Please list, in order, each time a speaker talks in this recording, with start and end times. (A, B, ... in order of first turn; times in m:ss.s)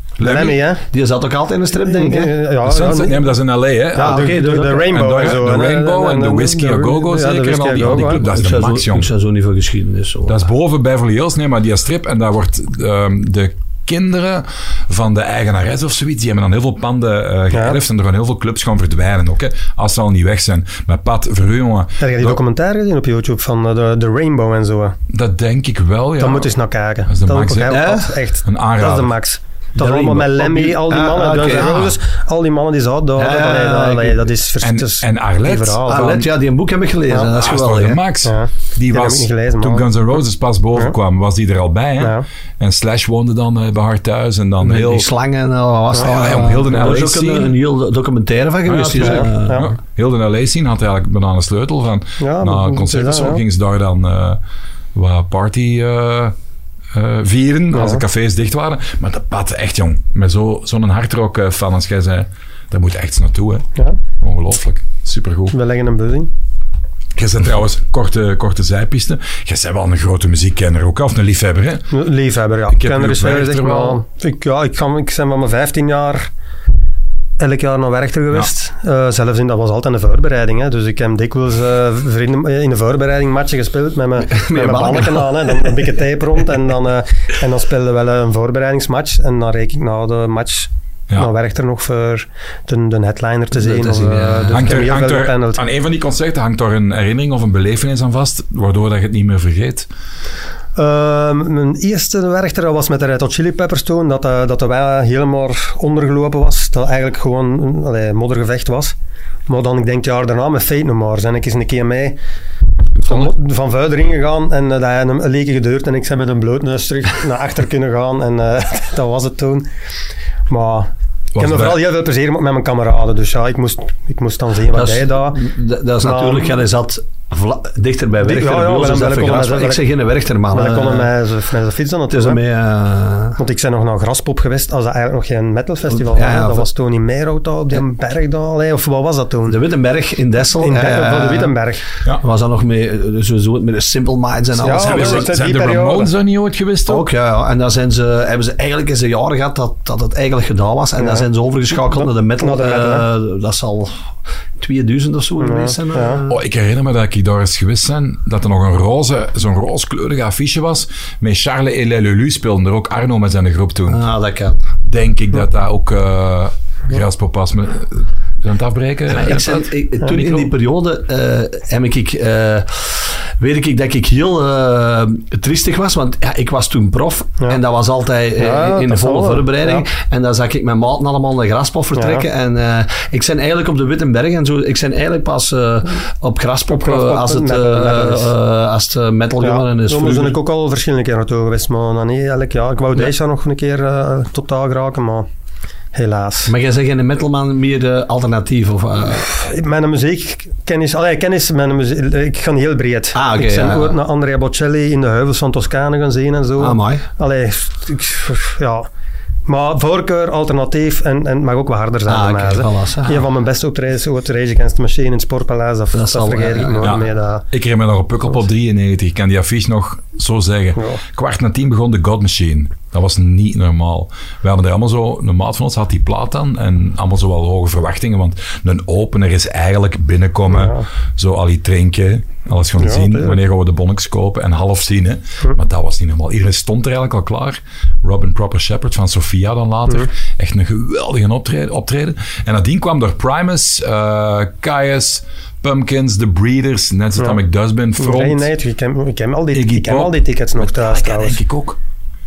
0:00.2-0:00.6 A
0:00.2-0:00.8 B
0:00.9-0:02.4 C
0:01.8-0:03.2 B
0:02.6-0:09.1 A
0:03.9-0:08.3 B
0:04.0-0:05.1 C
0:08.1-0:10.4 C
0:10.3-0:22.4 A
0:17.5-0:17.8 B
0:22.0-0:25.0 B
0:25.1-0:26.5 A
0:26.2-0:36.2 B
0:27.1-0:27.9 A
0:27.7-0:28.1 C
0:28.4-0:29.1 A
0:29.8-0:31.9 C
0:33.2-0:34.3 C
0:34.6-0:36.3 A
0:35.9-0:38.0 C
0:37.3-0:45.1 A
0:38.2-0:39.9 B
0:42.0-0:42.2 B
0:44.6-0:49.7 C
0:46.0-0:47.6 A
0:48.6-0:54.4 A
0:49.0-0:49.7 B
0:52.2-0:53.4 B
0:54.9-0:56.4 A
0:56.9-1:03.7 A
0:57.7-0:58.0 B
1:04.2-1:05.6 A
1:05.5-1:06.3 B
1:07.1-1:11.9 A
1:11.9-1:16.3 B
1:12.7-1:14.0 A
1:17.4-1:35.6 B
1:24.3-1:25.6 C
1:33.6-1:34.7 C
1:34.5-1:39.9 A
1:40.8-1:48.9 B
1:49.5-1:52.2 B
1:53.0-1:59.7 B
2:00.5-2:05.4 B
2:01.4-2:01.8 A
2:04.7-2:11.1 C
2:06.0-2:06.6 B
2:08.2-2:09.9 B
2:10.5-2:12.4 B
2:12.1-2:13.4 C
2:13.4-2:19.6 B
2:15.9-2:16.6 C
2:19.5-2:21.6 C
2:20.6-2:21.8 B
2:22.2-2:25.3 C
2:24.6-2:26.1 B
2:24.7-2:27.1 A
2:26.9-2:34.0 C
2:31.0-2:31.3 B
2:31.8-2:33.1 B
2:34.6-2:36.4 C
2:35.4-2:36.2 B
2:36.3-2:44.0 A
2:43.9-2:44.6 C
2:44.8-2:50.5 A
2:49.1-3:10.4 C
2:58.4-2:59.9 B
3:02.0-3:02.3 B
3:06.8-3:08.3 B
3:09.4-3:15.3 B
3:15.9-3:16.5 B
3:16.5-3:19.3 C
3:19.2-3:28.9 B
3:23.1-3:23.9 C
3:26.6-3:27.1 C
3:29.5-3:37.4 B
3:32.1-3:33.2 C
3:35.9-3:37.0 C
3:36.8-4:08.5 A
3:50.5-3:50.9 B
3:52.8-3:53.4 B
4:08.0-4:11.4 B
4:09.5-4:11.8 A